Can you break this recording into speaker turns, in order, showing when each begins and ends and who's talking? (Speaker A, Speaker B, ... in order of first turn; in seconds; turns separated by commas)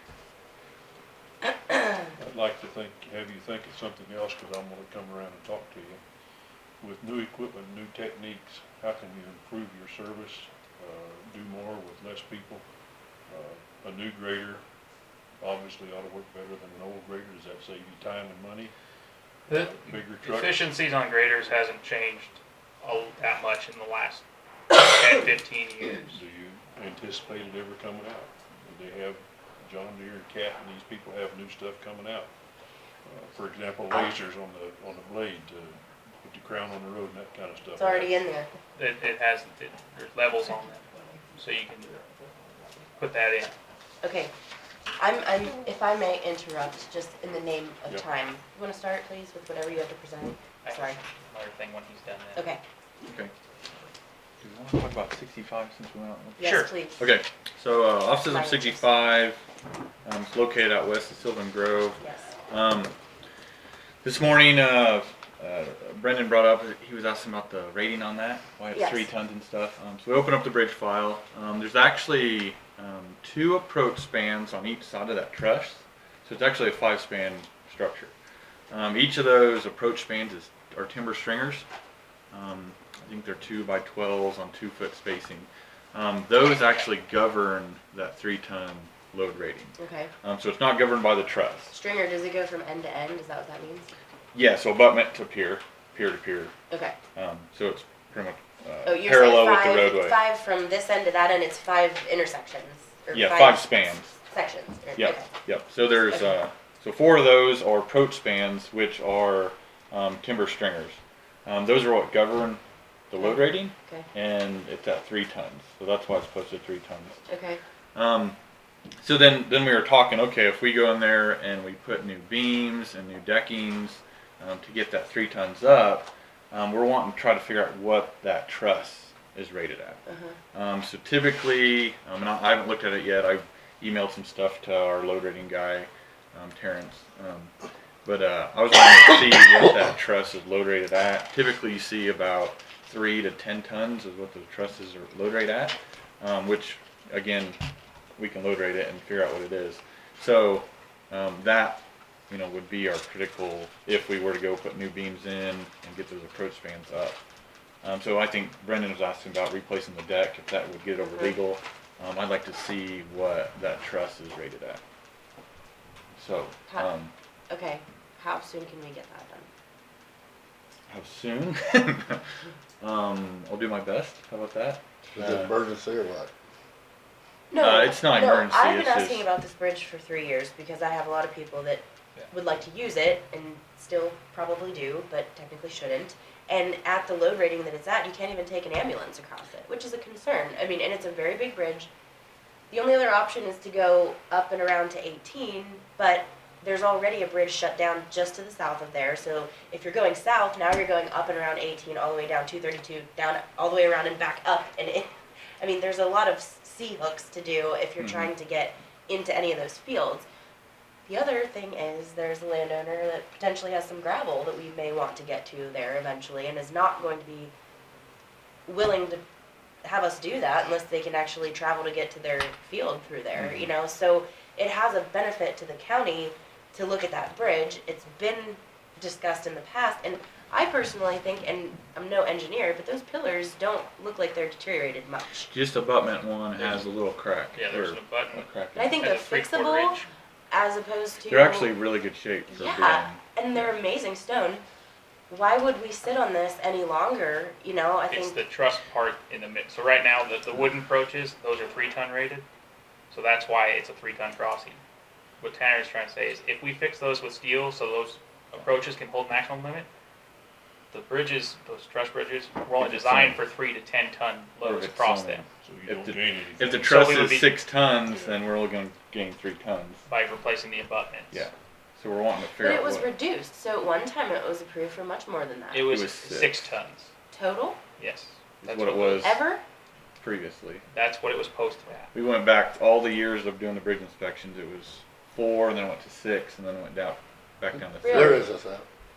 Speaker A: 1.4-2.1, Speaker B: 2.2-6.0, Speaker B: 6.8-12.6, Speaker B: 13.3-14.6, Speaker B: 15.4-18.7, Speaker B: 19.5-20.7, Speaker C: 19.5-26.2, Speaker B: 26.1-32.3, Speaker B: 33.0-38.2, Speaker A: 37.8-38.5, Speaker C: 38.7-42.0, Speaker C: 43.0-43.5, Speaker A: 44.0-44.3, Speaker A: 45.0-51.0, Speaker C: 50.6-52.5, Speaker A: 52.3-52.6, Speaker D: 53.0-53.3, Speaker D: 54.4-59.4, Speaker A: 56.4-57.0, Speaker C: 56.4-56.7, Speaker A: 58.2-58.9, Speaker D: 60.0-62.9, Speaker A: 62.0-62.3, Speaker D: 64.0-78.1, Speaker A: 68.7-69.1, Speaker D: 78.7-81.6, Speaker D: 82.3-91.7, Speaker A: 89.8-90.1, Speaker A: 91.7-93.9, Speaker D: 94.3-96.5, Speaker A: 96.7-97.0, Speaker D: 97.1-100.2, Speaker A: 98.8-105.3, Speaker D: 103.1-104.2, Speaker D: 105.0-117.2, Speaker A: 113.2-114.1, Speaker A: 117.3-117.6, Speaker D: 117.9-118.3, Speaker D: 119.0-147.6, Speaker A: 130.1-130.4, Speaker D: 148.2-157.2, Speaker D: 157.8-164.8, Speaker D: 166.2-167.1, Speaker A: 167.5-169.5, Speaker D: 170.9-172.2, Speaker D: 172.8-175.6, Speaker E: 175.1-176.3, Speaker A: 177.5-191.9, Speaker D: 177.6-179.2, Speaker A: 192.7-205.1, Speaker A: 205.6-210.2, Speaker D: 208.0-208.3, Speaker A: 211.1-217.5, Speaker A: 218.7-219.2, Speaker A: 219.8-235.5, Speaker D: 223.4-223.7, Speaker D: 235.4-239.0, Speaker C: 237.5-238.4, Speaker A: 238.7-241.7, Speaker C: 239.0-240.1, Speaker D: 241.3-243.2, Speaker A: 242.5-244.6, Speaker A: 245.3-248.4, Speaker C: 248.1-252.4, Speaker C: 253.1-254.8, Speaker C: 255.4-259.9, Speaker C: 260.9-265.4, Speaker D: 262.8-263.4, Speaker D: 264.6-270.0, Speaker B: 265.6-266.9, Speaker C: 266.9-267.6, Speaker C: 270.1-271.5, Speaker D: 271.3-273.1, Speaker A: 272.6-275.9, Speaker C: 275.7-277.1, Speaker D: 275.9-276.6, Speaker A: 277.3-277.8, Speaker C: 278.0-278.4, Speaker D: 278.6-279.4, Speaker A: 278.7-279.6, Speaker D: 280.2-280.8, Speaker C: 280.9-282.1, Speaker D: 282.1-288.5, Speaker A: 288.0-288.4, Speaker E: 288.1-288.9